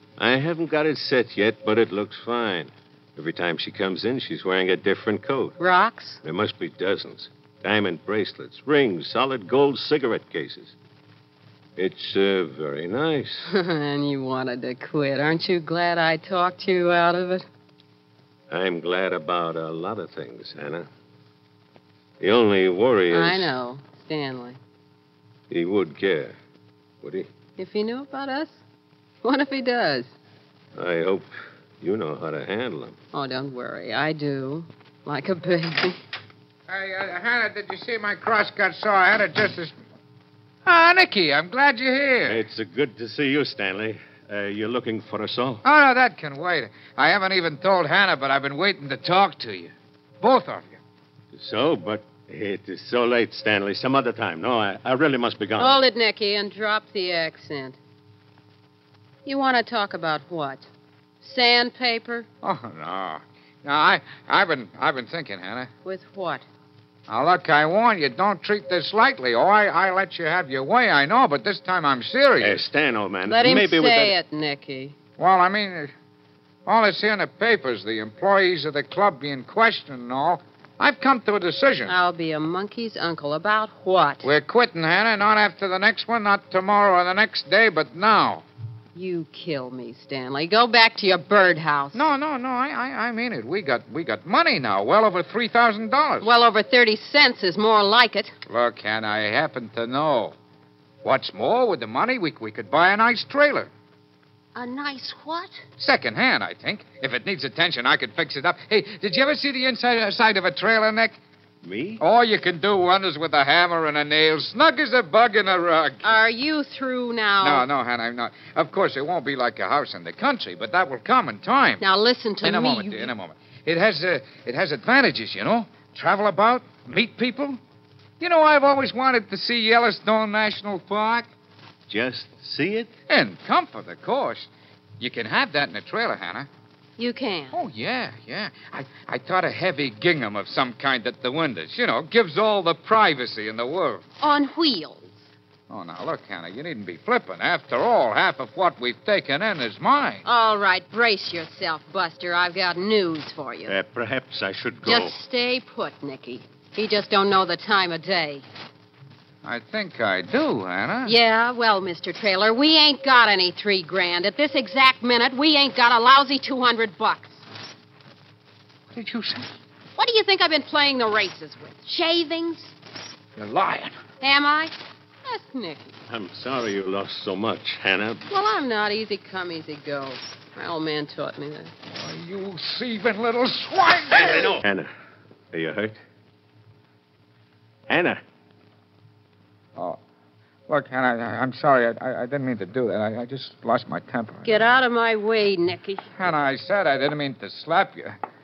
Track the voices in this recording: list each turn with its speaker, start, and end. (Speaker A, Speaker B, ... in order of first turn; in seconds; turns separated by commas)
Speaker A: 0.2-5.6, Speaker B: 5.6-6.2, Speaker A: 6.2-10.8, Speaker A: 11.8-13.5, Speaker B: 13.5-17.4, Speaker A: 18.5-20.9, Speaker A: 22.2-23.5, Speaker B: 23.1-24.6, Speaker A: 25.5-26.3, Speaker A: 27.0-27.3, Speaker B: 27.6-28.6, Speaker B: 29.2-30.1, Speaker A: 30.8-33.0, Speaker B: 33.1-36.0, Speaker C: 36.7-39.7, Speaker C: 40.7-42.4, Speaker A: 42.2-45.6, Speaker C: 45.6-50.8, Speaker A: 51.3-55.8, Speaker B: 55.6-57.8, Speaker B: 59.2-60.7, Speaker B: 61.2-62.3, Speaker C: 62.4-65.7, Speaker B: 65.8-66.5, Speaker C: 67.1-72.6, Speaker A: 72.4-74.2, Speaker B: 73.3-75.0, Speaker C: 75.2-75.9, Speaker C: 76.7-81.9, Speaker B: 81.9-84.3, Speaker C: 84.2-88.5, Speaker B: 89.0-92.0, Speaker C: 91.9-96.3, Speaker B: 96.2-98.3, Speaker C: 98.5-100.4, Speaker C: 101.0-103.7, Speaker B: 104.5-105.6, Speaker C: 105.8-111.2, Speaker A: 111.6-112.0, Speaker C: 112.0-116.1, Speaker B: 116.0-117.7, Speaker C: 117.4-121.8, Speaker B: 121.8-123.1, Speaker C: 122.4-127.6, Speaker C: 128.2-131.3, Speaker A: 131.9-132.9, Speaker C: 133.1-134.5, Speaker C: 135.0-136.5, Speaker B: 137.0-137.6, Speaker C: 137.5-144.0, Speaker B: 144.2-145.2, Speaker C: 145.7-150.2, Speaker B: 150.2-153.7, Speaker A: 153.7-155.2, Speaker B: 154.8-158.5, Speaker C: 159.4-161.1, Speaker B: 161.1-167.5, Speaker C: 168.9-169.5, Speaker B: 170.0-172.8, Speaker C: 173.4-174.0, Speaker B: 174.2-176.0, Speaker A: 176.1-178.3, Speaker B: 178.3-181.7, Speaker C: 181.9-184.5, Speaker A: 184.1-184.9, Speaker A: 185.5-186.0, Speaker A: 187.9-188.2, Speaker C: 190.7-194.7, Speaker B: 194.4-196.1, Speaker C: 196.2-198.2